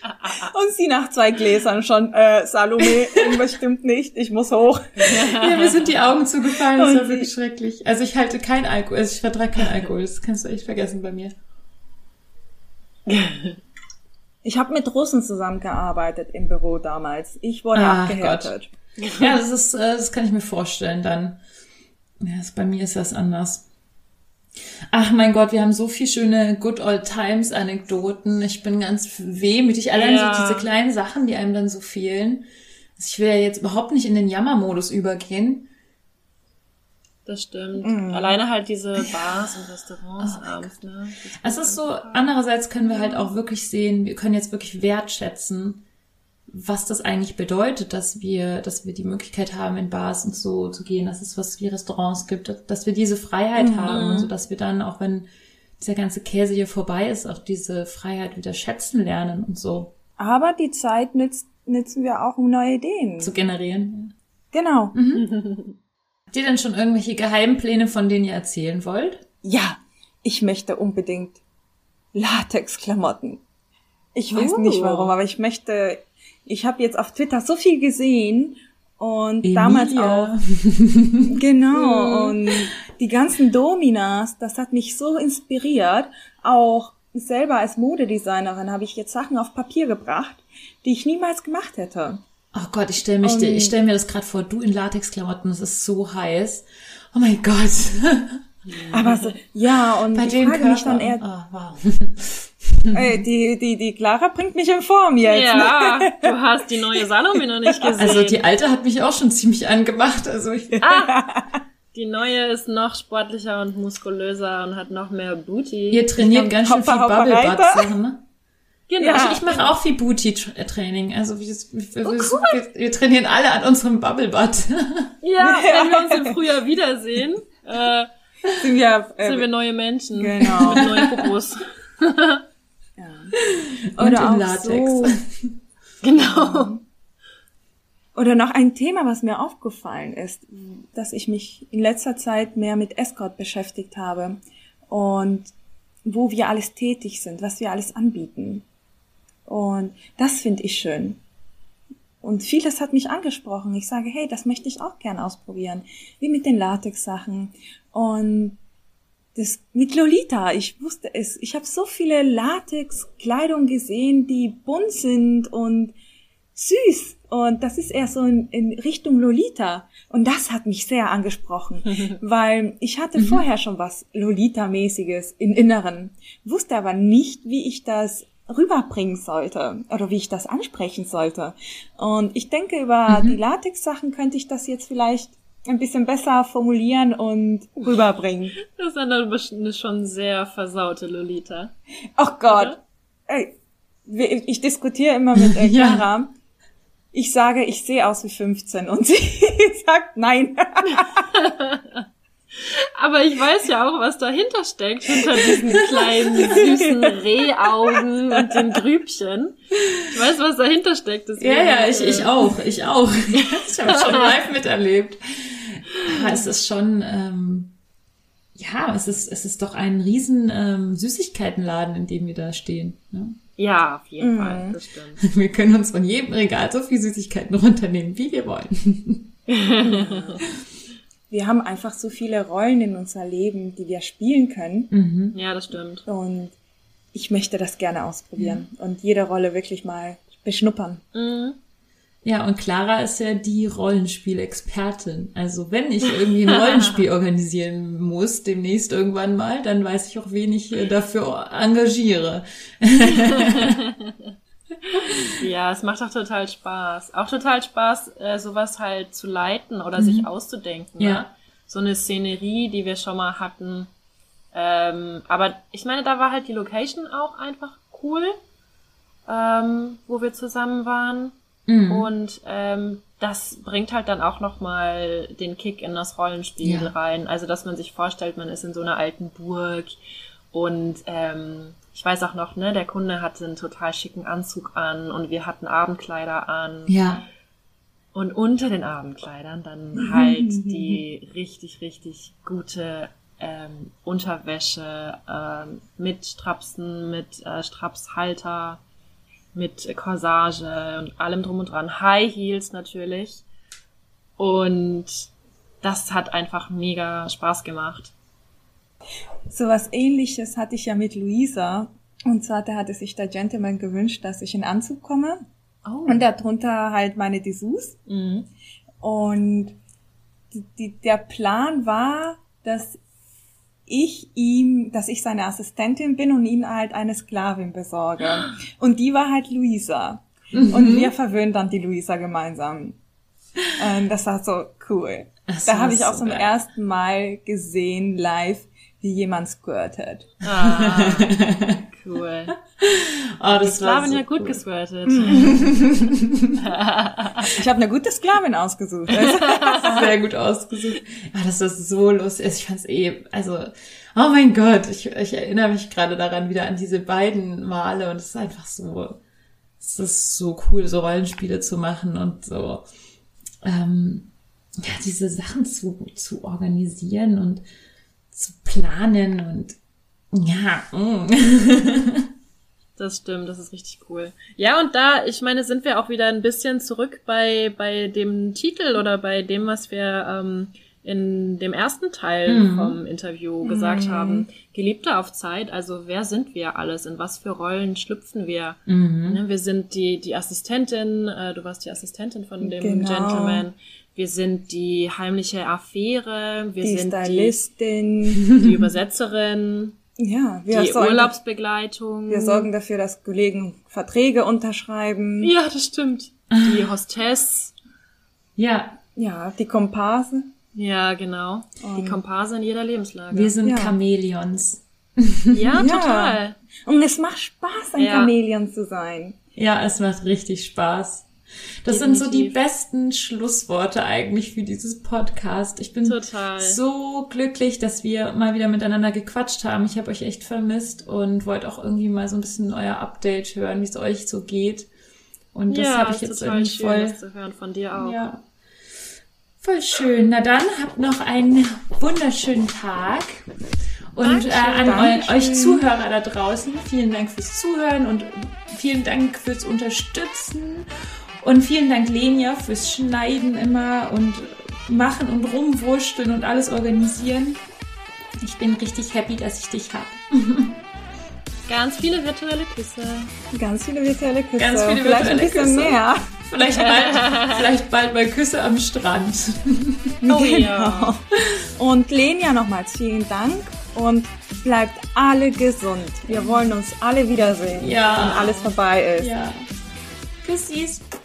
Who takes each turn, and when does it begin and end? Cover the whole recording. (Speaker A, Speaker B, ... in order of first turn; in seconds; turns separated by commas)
Speaker A: 0.3-5.2, Speaker B: 5.0-5.9, Speaker C: 5.3-11.3, Speaker A: 6.7-7.3, Speaker B: 13.1-13.6, Speaker A: 14.4-18.7, Speaker C: 17.7-18.5, Speaker B: 19.0-19.3, Speaker C: 19.2-21.4, Speaker C: 22.2-23.7, Speaker C: 24.9-32.5, Speaker B: 29.9-30.7, Speaker C: 33.0-35.7, Speaker B: 37.3-42.3, Speaker A: 37.8-38.4, Speaker C: 40.2-40.7, Speaker C: 41.4-45.8, Speaker B: 42.8-43.3, Speaker C: 46.5-55.3, Speaker A: 53.6-54.1, Speaker B: 53.9-54.3, Speaker C: 55.8-60.0, Speaker A: 60.2-63.3, Speaker C: 63.2-64.1, Speaker A: 64.5-65.0, Speaker C: 64.9-65.3, Speaker B: 65.1-65.8, Speaker C: 66.3-69.2, Speaker A: 69.4-71.4, Speaker A: 72.2-73.4, Speaker A: 74.2-80.3, Speaker B: 74.3-75.1, Speaker C: 79.4-81.3, Speaker A: 81.3-92.2, Speaker B: 81.7-82.4, Speaker C: 92.5-98.4, Speaker A: 93.2-93.8, Speaker B: 98.7-99.3, Speaker A: 98.9-101.2, Speaker C: 100.1-103.2, Speaker A: 102.9-106.3, Speaker B: 105.2-108.4, Speaker C: 108.0-110.8, Speaker B: 110.8-111.2, Speaker A: 110.9-111.6, Speaker B: 111.9-116.1, Speaker C: 115.9-118.2, Speaker A: 116.2-117.9, Speaker B: 118.9-119.7, Speaker A: 119.0-119.4, Speaker C: 119.0-125.1, Speaker B: 122.1-122.6, Speaker B: 125.2-128.1, Speaker A: 125.4-126.4, Speaker A: 128.5-129.5, Speaker B: 129.2-132.4, Speaker A: 130.2-130.9, Speaker C: 130.7-131.2, Speaker A: 133.0-133.3, Speaker C: 133.6-135.5, Speaker A: 134.0-135.2, Speaker B: 136.0-136.8, Speaker A: 136.2-136.8, Speaker A: 138.2-144.4, Speaker A: 144.9-145.5, Speaker A: 146.1-148.6, Speaker A: 149.5-151.2, Speaker A: 152.2-158.6, Speaker A: 159.4-165.9, Speaker A: 166.6-188.6, Speaker C: 173.2-173.4, Speaker C: 183.1-183.4, Speaker B: 188.7-191.7, Speaker A: 192.2-193.5, Speaker B: 192.5-192.8, Speaker A: 194.1-196.3, Speaker C: 195.4-196.1, Speaker A: 197.1-201.2, Speaker B: 201.3-202.0, Speaker B: 202.6-209.6, Speaker A: 205.4-206.7, Speaker B: 210.1-212.4, Speaker C: 211.4-217.7, Speaker B: 213.4-214.3, Speaker C: 218.6-223.4, Speaker B: 223.6-225.2, Speaker A: 224.2-224.8, Speaker C: 225.2-229.3, Speaker B: 229.5-230.4, Speaker A: 229.8-230.4, Speaker A: 231.3-234.9, Speaker C: 234.9-235.4, Speaker B: 235.3-236.0, Speaker A: 236.1-236.5, Speaker A: 237.1-241.0, Speaker C: 238.4-238.7, Speaker B: 241.1-241.6, Speaker C: 242.2-253.8, Speaker B: 255.3-263.9, Speaker C: 260.0-260.3, Speaker C: 261.0-261.3, Speaker B: 264.5-268.4, Speaker B: 269.3-271.3, Speaker C: 271.7-272.1, Speaker B: 271.9-279.9, Speaker C: 276.6-276.9, Speaker B: 280.5-287.1, Speaker C: 286.9-287.2, Speaker B: 288.1-298.8, Speaker A: 290.1-291.0, Speaker B: 299.6-303.4, Speaker B: 304.4-305.3, Speaker B: 305.8-308.1, Speaker A: 309.5-315.4, Speaker B: 315.9-316.2, Speaker A: 316.1-318.0, Speaker B: 318.1-318.5, Speaker A: 319.0-319.8, Speaker A: 320.5-323.0, Speaker A: 323.9-333.0, Speaker C: 330.5-331.1, Speaker A: 333.8-340.3, Speaker C: 335.5-336.5, Speaker B: 340.4-341.4, Speaker C: 340.5-341.8, Speaker B: 341.9-342.5, Speaker C: 342.8-344.6, Speaker B: 343.6-345.8, Speaker A: 345.1-345.6, Speaker C: 345.2-346.6, Speaker B: 346.6-347.5, Speaker A: 347.5-350.1, Speaker C: 349.7-359.2, Speaker C: 359.8-362.9, Speaker C: 363.6-367.6, Speaker C: 368.3-369.8, Speaker C: 370.3-372.3, Speaker B: 373.0-397.6, Speaker C: 382.5-383.0, Speaker A: 383.6-384.5, Speaker C: 388.9-389.4, Speaker A: 392.6-393.7, Speaker A: 396.8-398.5, Speaker C: 398.5-398.8, Speaker B: 398.6-400.0, Speaker A: 400.2-401.3, Speaker B: 400.7-402.7, Speaker A: 402.3-405.5, Speaker B: 405.4-407.7, Speaker C: 406.5-406.9, Speaker C: 408.6-409.0, Speaker A: 409.2-410.5, Speaker B: 410.8-413.5, Speaker A: 411.8-412.2, Speaker C: 413.3-415.9, Speaker A: 413.6-414.0, Speaker B: 415.5-416.6, Speaker A: 415.8-419.4, Speaker B: 418.0-418.3, Speaker C: 419.6-421.3, Speaker C: 421.8-434.9, Speaker B: 421.9-422.6, Speaker B: 426.0-426.8, Speaker C: 435.5-437.2, Speaker B: 435.7-438.2, Speaker C: 437.9-438.4, Speaker C: 439.6-443.5, Speaker C: 444.1-450.9, Speaker B: 444.2-445.1, Speaker A: 444.8-445.8, Speaker C: 451.4-457.6, Speaker C: 458.4-460.8, Speaker B: 461.7-463.3, Speaker A: 463.5-466.2, Speaker C: 464.6-470.1, Speaker B: 466.8-467.6, Speaker A: 470.2-479.3, Speaker B: 470.3-471.1, Speaker C: 477.8-478.5, Speaker B: 478.1-478.7, Speaker C: 479.2-479.7, Speaker C: 480.4-481.1